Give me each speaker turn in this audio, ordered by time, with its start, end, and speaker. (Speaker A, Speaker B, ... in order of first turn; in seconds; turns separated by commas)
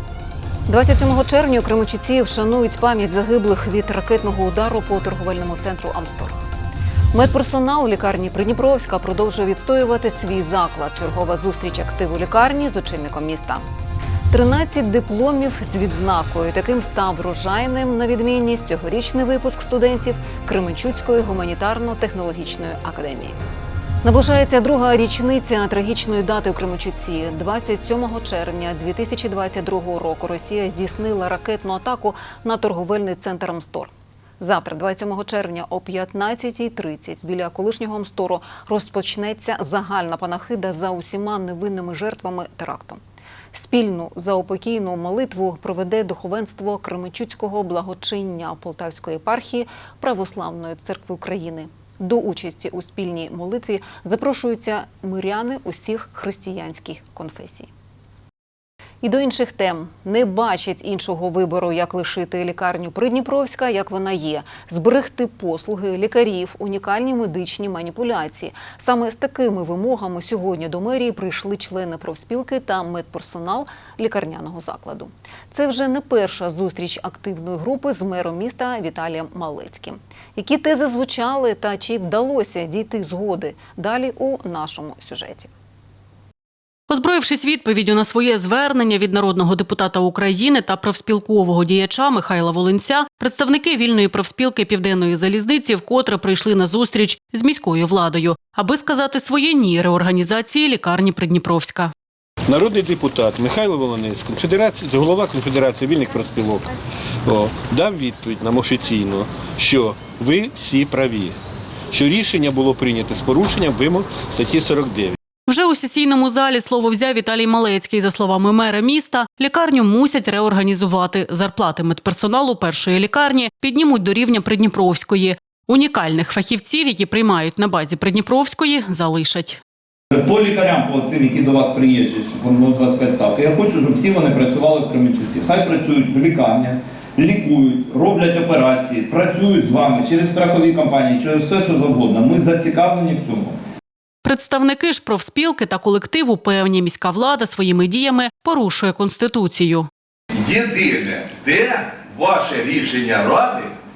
Speaker A: 0.7-6.4, Speaker A: 7.1-13.7, Speaker A: 14.3-23.4, Speaker A: 24.0-43.0, Speaker A: 43.5-57.7, Speaker A: 59.0-85.5, Speaker B: 86.9-101.9, Speaker C: 102.5-106.7, Speaker C: 107.3-111.3, Speaker C: 111.9-115.2, Speaker B: 115.5-129.6, Speaker D: 130.1-143.6, Speaker B: 144.2-149.9, Speaker E: 150.4-153.7